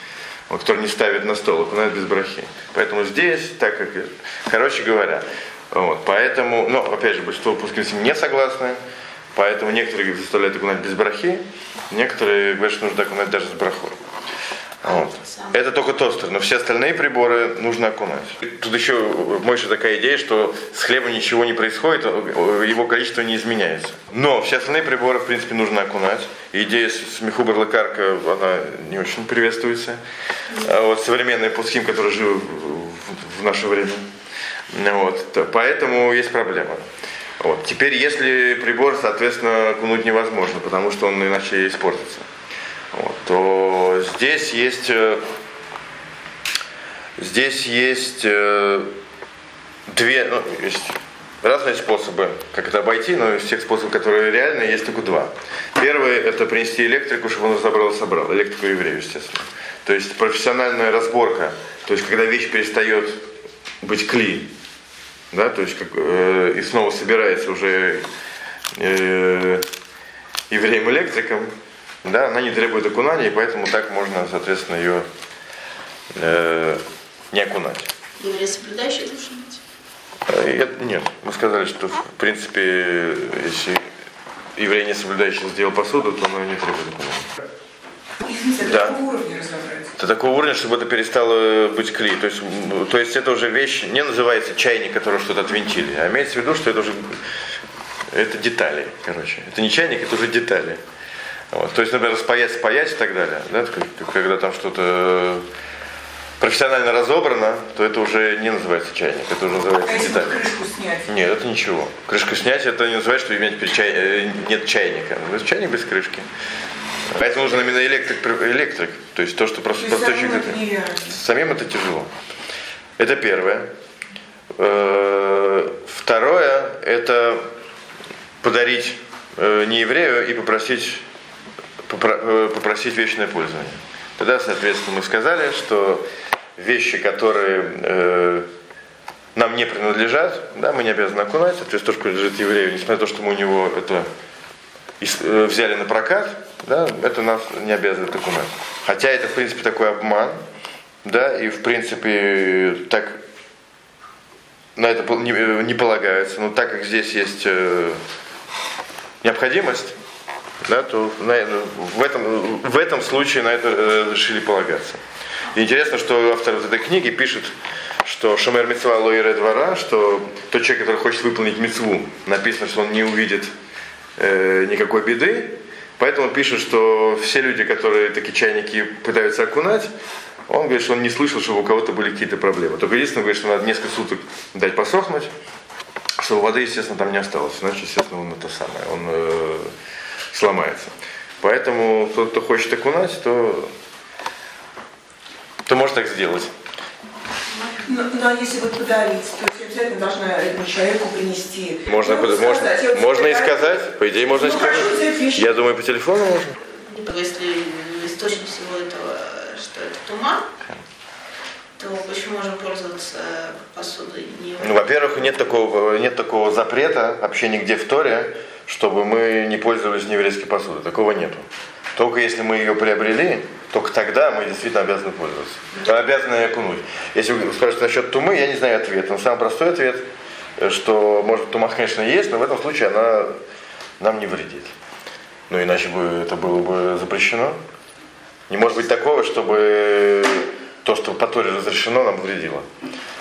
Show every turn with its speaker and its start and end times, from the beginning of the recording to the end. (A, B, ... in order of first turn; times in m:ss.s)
0:00.5-0:08.8 A
0:09.3-0:14.0 A
0:14.8-0:30.0 A
0:14.9-0:15.5 B
0:30.5-0:34.1 A
0:34.7-0:36.8 A
0:37.4-0:42.3 A
0:42.9-0:45.2 A
0:47.2-0:48.9 A
0:49.9-1:03.2 A
1:03.8-1:04.5 A
1:05.3-1:08.0 A
1:08.7-1:09.6 A
1:10.5-1:11.5 A
1:12.0-1:15.1 A
1:16.1-1:17.9 A
1:18.2-1:19.6 B
1:20.3-1:23.8 A
1:24.6-1:27.3 A
1:28.2-1:29.9 C
1:28.6-1:29.0 A
1:30.0-1:37.2 A
1:38.1-1:40.8 A
1:41.5-1:45.4 A
1:46.4-1:50.4 A
1:49.9-1:51.1 C
1:51.1-1:56.3 A
1:57.1-2:02.1 A
1:59.8-2:01.2 C
2:03.0-2:03.7 A
2:04.5-2:07.5 A
2:08.4-2:11.0 A
2:11.9-2:16.1 A
2:16.6-2:18.5 A
2:19.4-2:24.1 A
2:25.0-2:30.4 A
2:31.0-2:33.2 A
2:34.8-2:38.0 A
2:39.2-2:39.9 A
2:40.6-2:45.0 A
2:45.5-2:53.5 A
2:54.2-2:59.9 A
3:00.5-3:05.3 A
3:06.2-3:09.7 A
3:10.3-3:13.7 A
3:15.6-3:16.5 A
3:17.8-3:25.6 C
3:21.9-3:26.6 A
3:26.7-3:30.5 B
3:31.8-3:34.8 B
3:34.6-3:50.0 A
3:50.6-3:53.4 A
3:54.0-3:54.7 A
3:55.5-3:57.6 A
3:58.5-4:02.7 A